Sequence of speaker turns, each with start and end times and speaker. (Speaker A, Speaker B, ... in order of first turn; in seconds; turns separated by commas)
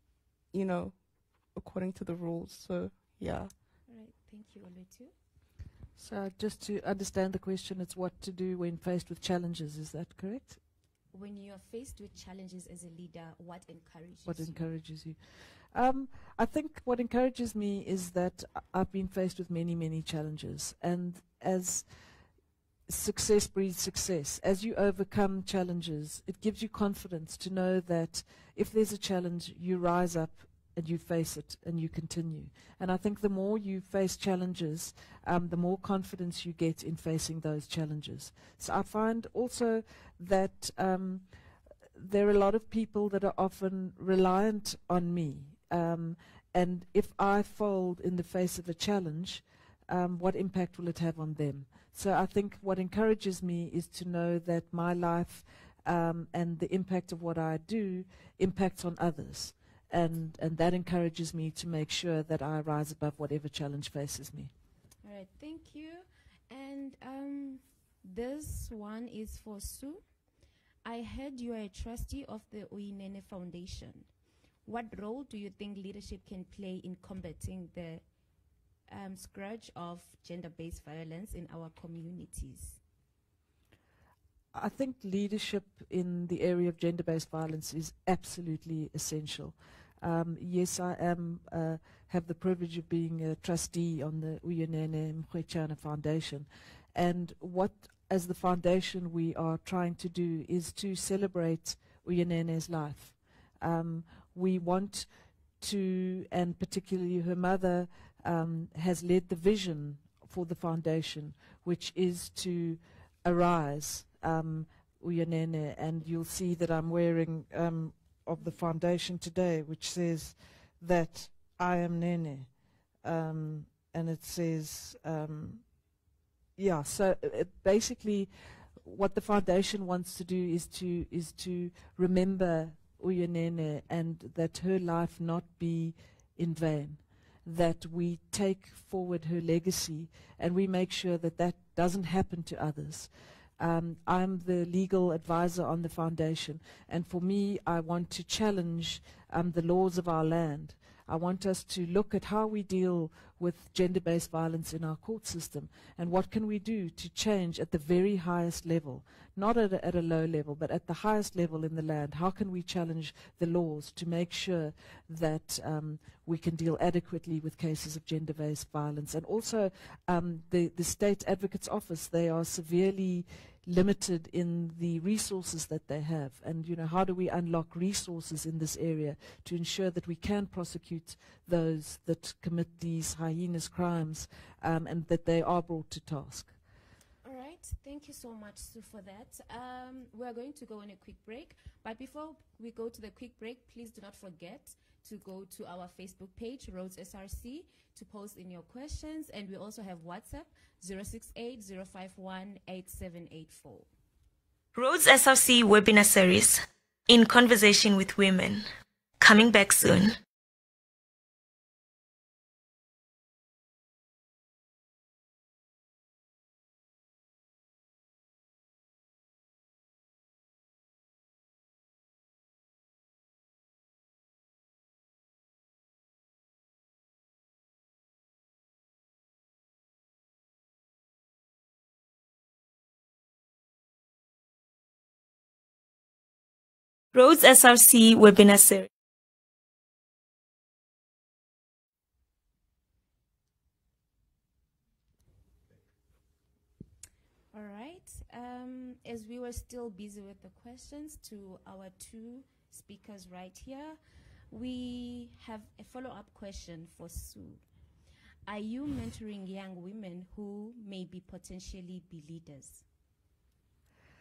Speaker A: 0.5-3.5, Speaker B: 3.9-5.1, Speaker C: 6.0-10.6, Speaker B: 11.1-14.6, Speaker C: 14.2-21.9, Speaker C: 22.9-41.2, Speaker C: 41.9-64.5, Speaker B: 65.0-70.0, Speaker B: 70.8-74.1, Speaker B: 74.6-78.0, Speaker B: 78.9-82.8, Speaker C: 84.5-125.6, Speaker C: 126.6-186.5, Speaker B: 187.2-203.9, Speaker D: 204.7-208.6, Speaker D: 209.2-210.1, Speaker D: 237.1-238.9, Speaker B: 247.5-254.0, Speaker B: 254.5-257.6, Speaker B: 258.4-262.8